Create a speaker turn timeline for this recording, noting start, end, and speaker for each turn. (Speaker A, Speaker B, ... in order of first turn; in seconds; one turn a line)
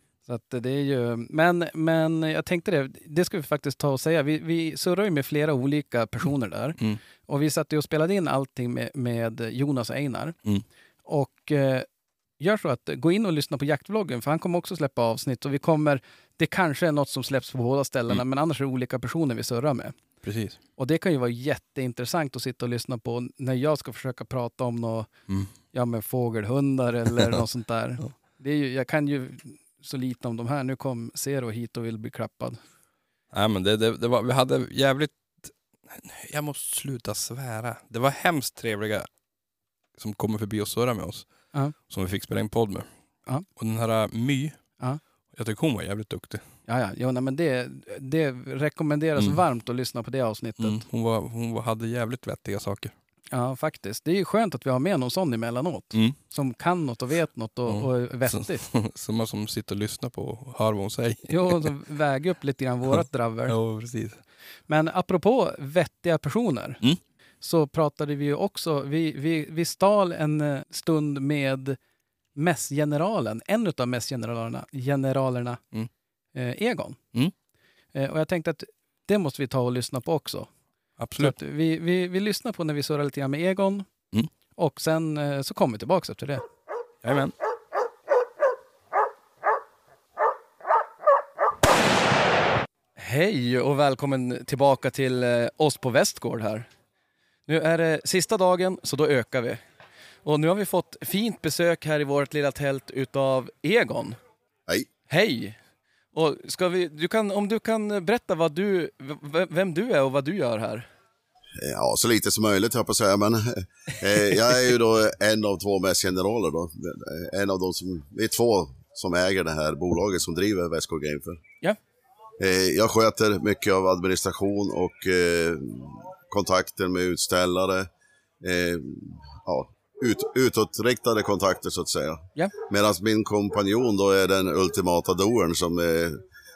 Speaker A: 0.3-10.4
Speaker A: 11.1-11.9
Speaker A: 12.4-19.9
Speaker B: 20.2-20.6
Speaker A: 20.8-25.1
Speaker A: 25.7-32.6
Speaker B: 33.3-39.1
Speaker B: 40.0-42.9
Speaker B: 43.5-44.6
Speaker B: 45.3-46.5
Speaker A: 46.7-50.8
Speaker B: 49.2-49.4
Speaker B: 50.6-52.9
Speaker A: 53.3-58.6
Speaker B: 57.6-61.7
Speaker A: 61.3-63.6
Speaker B: 62.9-64.2
Speaker A: 64.7-66.8
Speaker A: 67.4-71.8
Speaker A: 72.4-75.6
Speaker A: 76.3-77.0
Speaker A: 77.9-80.5
Speaker B: 81.0-81.4
Speaker A: 81.2-83.9
Speaker A: 84.6-86.4
Speaker B: 87.0-87.3
Speaker C: 93.0-96.7
Speaker C: 97.5-99.6
Speaker C: 100.2-104.2
Speaker C: 105.1-105.6
Speaker C: 106.1-110.9
Speaker D: 111.6-121.4
Speaker D: 122.4-127.9
Speaker D: 128.4-136.2